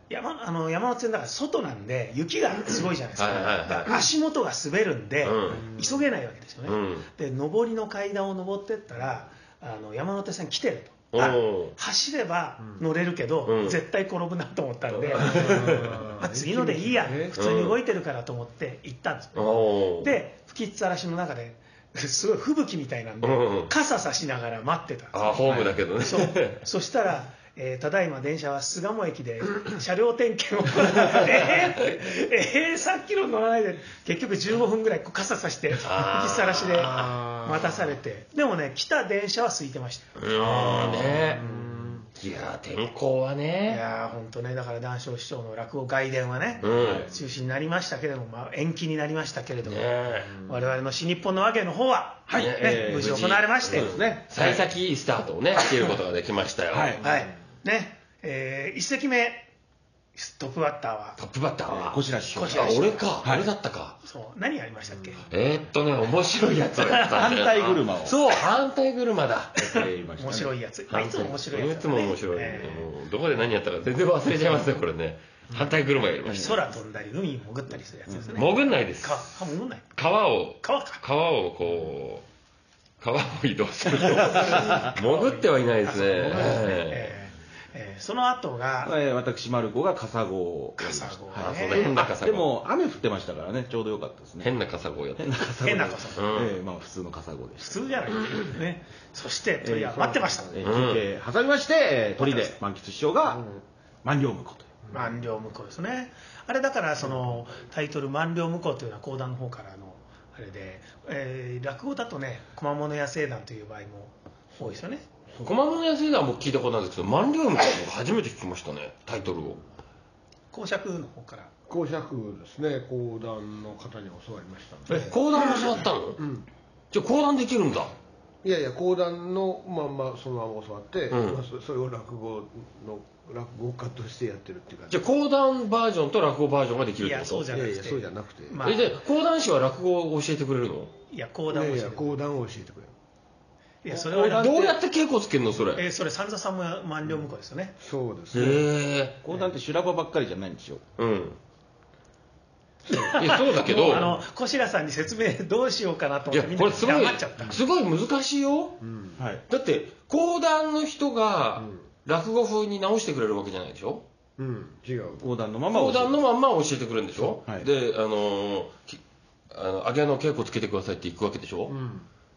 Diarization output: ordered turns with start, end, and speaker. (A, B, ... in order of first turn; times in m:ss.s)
0:00.1-0:41.8 A
0:03.2-0:04.0 B
0:05.2-0:05.6 B
0:05.6-0:05.9 C
0:06.7-0:07.1 B
0:11.1-0:11.7 B
0:13.5-0:13.8 B
0:15.0-0:16.0 B
0:15.2-0:17.4 C
0:17.4-0:17.8 B
0:19.4-0:20.2 B
0:23.2-0:23.7 B
0:25.1-0:26.6 B
0:35.8-0:37.2 B
0:36.8-0:37.8 C
0:40.2-0:41.4 B
0:41.2-0:42.1 C
0:42.2-0:43.8 B
0:43.7-0:53.9 A
0:46.6-0:47.1 B
0:46.8-0:47.1 D
0:49.6-0:50.4 B
0:52.3-0:54.6 D
0:52.3-0:57.0 B
0:56.7-0:57.0 D
0:57.0-0:59.5 A
1:00.2-1:01.2 A
1:01.2-1:04.0 B
1:01.7-1:03.5 D
1:02.3-1:03.1 A
1:04.0-1:05.3 A
1:05.3-1:09.6 B
1:06.8-1:07.2 A
1:06.9-1:08.2 D
1:09.6-1:10.5 D
1:09.7-1:12.9 A
1:10.9-1:16.6 B
1:16.2-1:16.6 D
1:16.3-1:19.9 A
1:18.1-1:18.4 D
1:18.4-1:19.4 B
1:20.0-1:22.2 B
1:20.6-1:21.0 A
1:23.0-1:27.1 B
1:24.0-1:24.9 D
1:24.3-1:28.9 A
1:28.8-1:34.5 D
1:30.8-1:32.0 A
1:31.4-1:32.5 B
1:34.4-1:35.3 B
1:35.2-1:38.0 D
1:35.6-1:36.3 A
1:36.2-1:36.6 B
1:37.6-1:40.5 A
1:39.6-1:43.5 D
1:39.9-1:40.7 C
1:40.6-1:41.0 B
1:42.2-1:42.6 A
1:43.2-1:43.6 C
1:44.0-1:44.7 D
1:44.9-1:55.1 A
1:55.4-1:59.6 B
2:00.5-2:01.5 A
2:01.7-2:06.4 C
2:05.0-2:06.2 B
2:06.9-2:07.9 B
2:08.4-2:15.0 C
2:11.1-2:11.4 B
2:14.9-2:17.5 B
2:17.0-2:18.9 A
2:17.5-2:18.6 C
2:18.6-2:20.9 B
2:21.1-2:22.2 A
2:21.5-2:23.0 C
2:23.8-2:24.7 A
2:23.9-2:24.8 D
2:24.2-2:25.8 B
2:25.8-2:27.8 A
2:27.8-2:28.6 C
2:28.3-2:29.2 B
2:29.2-2:30.8 D
2:31.0-2:31.4 B
2:32.9-2:37.6 A
2:33.0-2:34.2 B
2:36.3-2:38.8 B
2:38.8-2:39.2 C
2:39.2-2:39.4 D
2:39.5-2:44.0 B
2:44.4-2:45.2 C
2:45.2-2:46.2 D
2:45.7-2:49.0 B
2:49.5-2:51.8 B
2:51.7-2:52.0 C